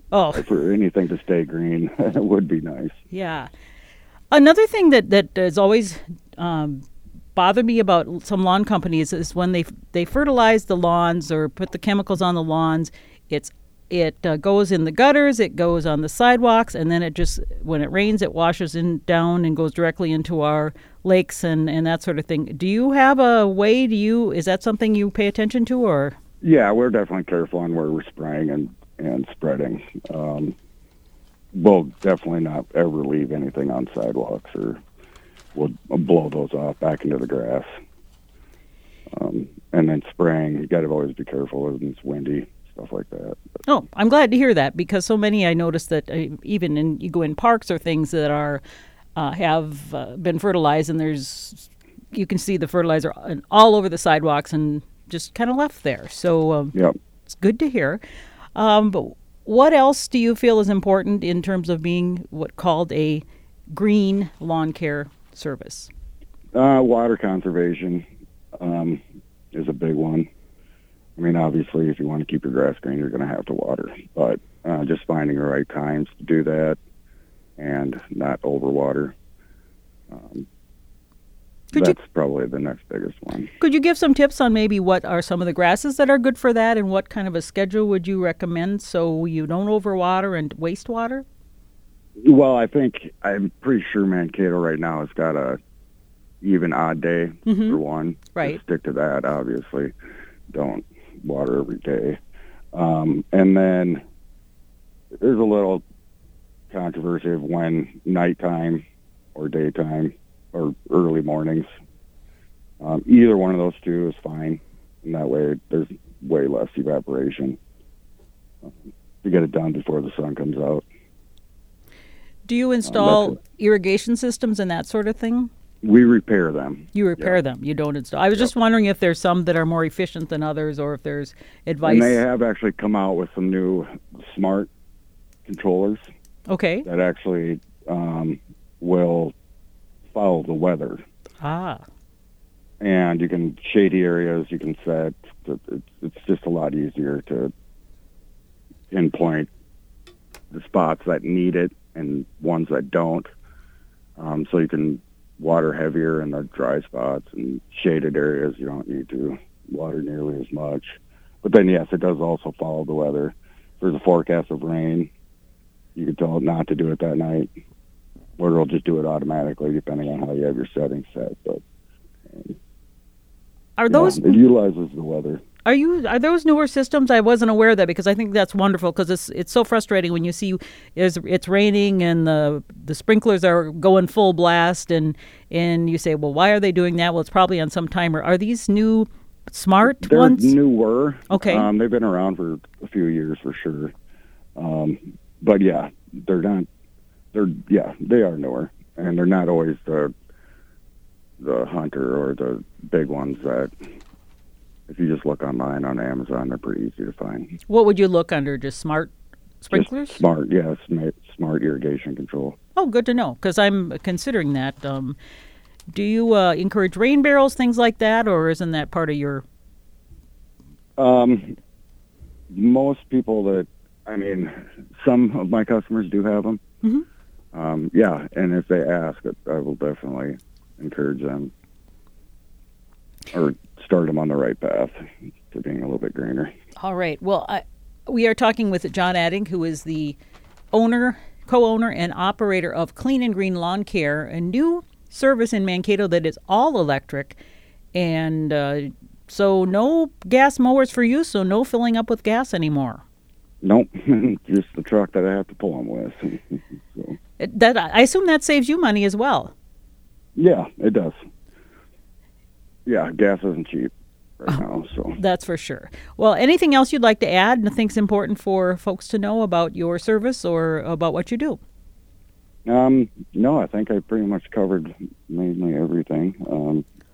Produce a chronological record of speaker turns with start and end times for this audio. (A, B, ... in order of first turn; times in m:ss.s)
0:00.1-0:00.5 A
0:00.3-0:03.0 B
0:03.1-0:03.5 A
0:04.3-0:06.8 A
0:07.4-0:26.2 A
0:26.4-0:30.6 B
0:31.5-0:34.8 B
0:35.6-0:37.7 B
0:39.1-0:43.4 B
0:43.7-0:48.6 A
0:49.2-0:56.8 A
0:57.3-0:58.0 A
0:58.6-1:05.9 A
1:06.6-1:08.1 B
1:08.6-1:09.0 B
1:09.5-1:10.3 B
1:11.2-1:16.8 B
1:17.6-1:19.2 B
1:20.1-1:20.5 B
1:21.7-1:23.5 B
1:23.6-1:31.2 A
1:32.2-1:35.6 B
1:36.4-1:39.9 B
1:37.5-1:37.8 A
1:38.3-1:38.6 A
1:40.5-1:42.2 B
1:42.7-1:44.0 B
1:45.2-1:45.8 B
1:46.7-1:48.8 B
1:49.4-1:51.7 B
1:52.8-1:57.6 B
1:58.6-2:00.9 B
2:02.5-2:05.5 A
2:02.8-2:03.4 B
2:05.8-2:07.4 B
2:07.0-2:12.2 A
2:11.8-2:14.7 B
2:15.5-2:16.0 B
2:16.5-2:16.9 A
2:16.8-2:19.3 B
2:20.1-2:21.0 B
2:21.4-2:21.8 A
2:22.8-2:27.5 B
2:28.9-2:29.5 B
2:30.5-2:33.3 B
2:34.2-2:45.1 B
2:46.0-2:47.5 B
2:48.4-2:51.6 B
2:52.3-2:52.6 B
2:53.8-2:54.3 A
2:53.9-2:55.4 B
2:55.6-3:10.6 A
3:09.8-3:13.9 B
3:11.3-3:11.7 A
3:14.6-3:16.7 B
3:17.3-3:20.1 B
3:21.4-3:23.7 B
3:24.9-3:27.6 B
3:27.7-3:30.2 A
3:29.7-3:32.6 B
3:32.8-3:35.2 A
3:35.9-3:39.4 A
3:41.0-3:41.6 B
3:42.5-3:46.6 B
3:47.5-3:51.5 B
3:53.3-3:55.0 B
3:55.5-3:56.5 B
3:56.8-4:00.2 A
4:00.7-4:07.4 A
4:07.9-4:13.0 A
4:13.6-4:17.2 B
4:17.4-4:19.5 A
4:20.4-4:21.2 B
4:22.9-4:25.2 B
4:25.2-4:31.6 A
4:32.7-4:36.8 B